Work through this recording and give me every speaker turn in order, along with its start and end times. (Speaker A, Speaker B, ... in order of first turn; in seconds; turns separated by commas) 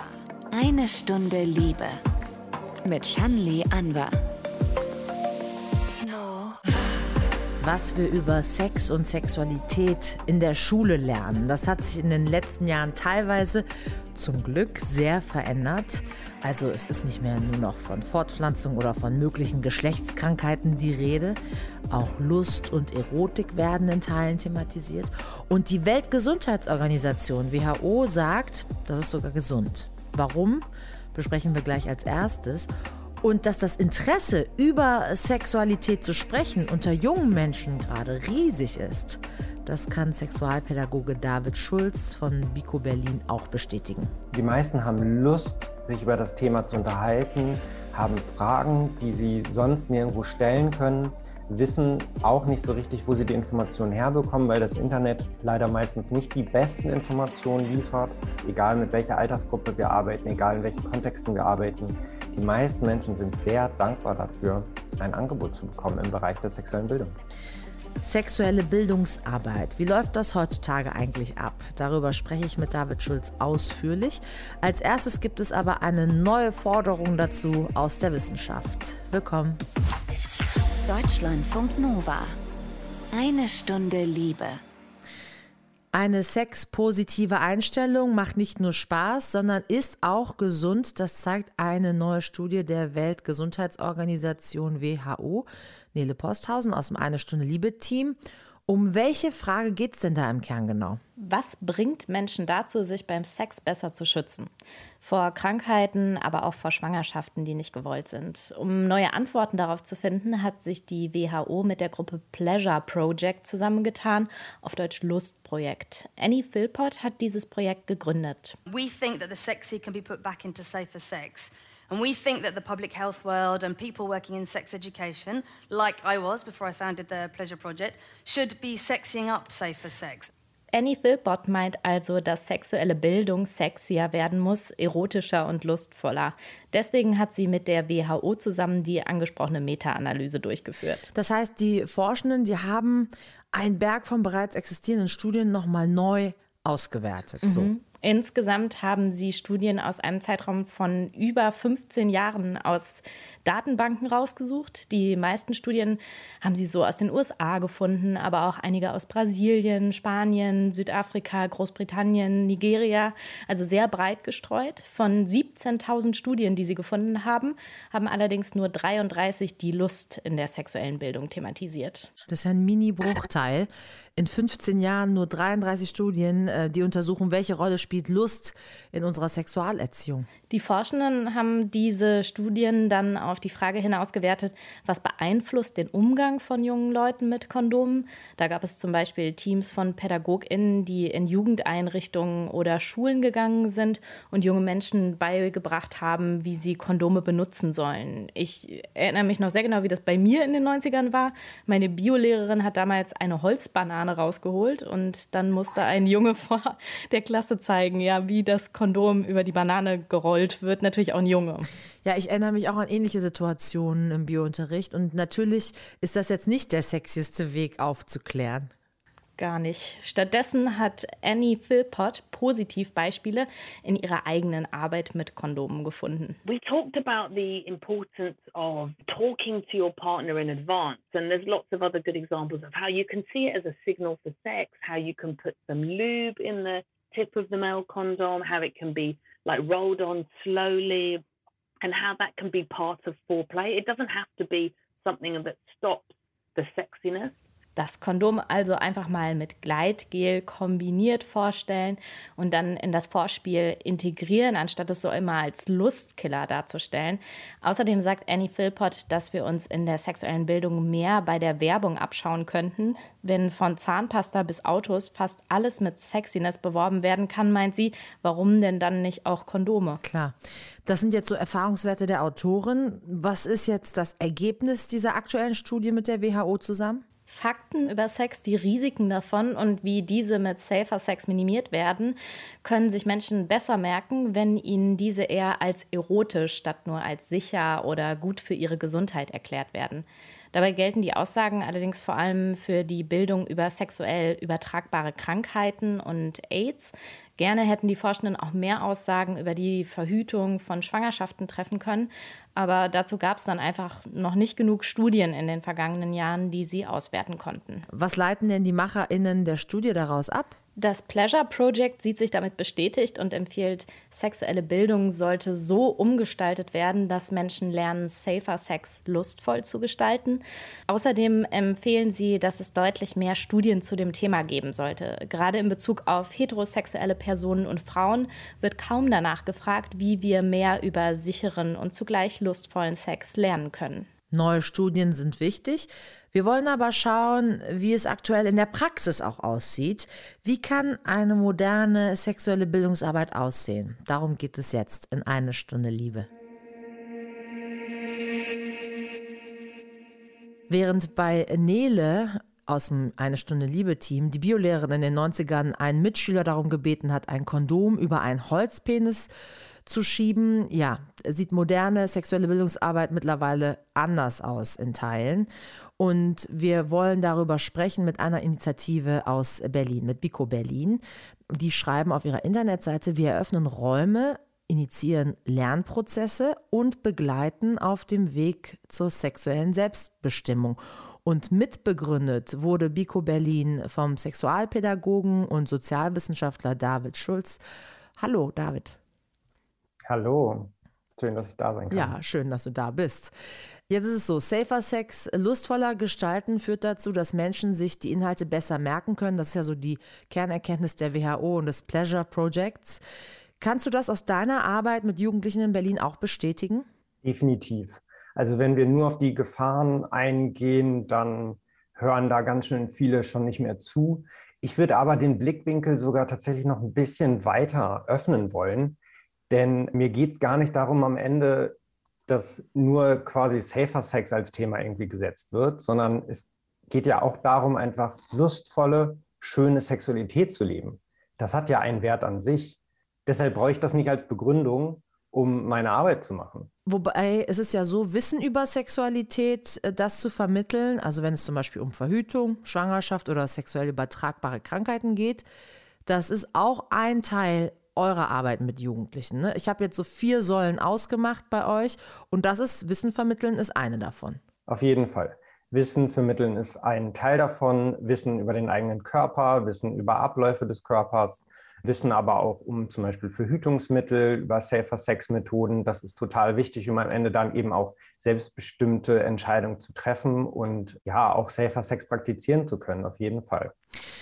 Speaker A: 0.5-2.0, Speaker A: 2.8-4.2, Speaker A: 6.0-6.7, Speaker B: 7.6-21.4, Speaker B: 21.9-32.7, Speaker B: 33.2-44.1, Speaker C: 44.3-67.2, Speaker B: 68.0-79.6, Speaker A: 80.8-82.4, Speaker A: 83.1-84.6, Speaker B: 85.9-101.0, Speaker D: 101.2-104.5, Speaker D: 105.0-118.6, Speaker E: 118.7-130.3, Speaker D: 130.7-141.1, Speaker B: 141.1-147.7, Speaker D: 147.4-172.1, Speaker B: 172.3-180.3, Speaker D: 180.5-211.7, Speaker B: 212.0-218.7, Speaker D: 219.4-226.4, Speaker F: 226.4-241.2, Speaker F: 241.8-247.3, Speaker D: 247.8-270.0, Speaker B: 270.0-277.0, Speaker D: 277.3-307.9, Speaker B: 307.9-310.6, Speaker D: 310.8-334.1, Speaker B: 334.3-346.3, Speaker B: 350.7-359.3, Speaker B: 359.8-387.6, Speaker B: 388.2-389.0, Speaker C: 390.1-392.1, Speaker B: 391.9-393.3, Speaker B: 393.9-403.0, Speaker B: 403.6-406.9, Speaker C: 407.2-419.0, Speaker C: 419.5-421.8, Speaker C: 422.3-436.7, Speaker B: 436.9-445.4, Speaker B: 446.1-454.4, Speaker C: 454.7-473.7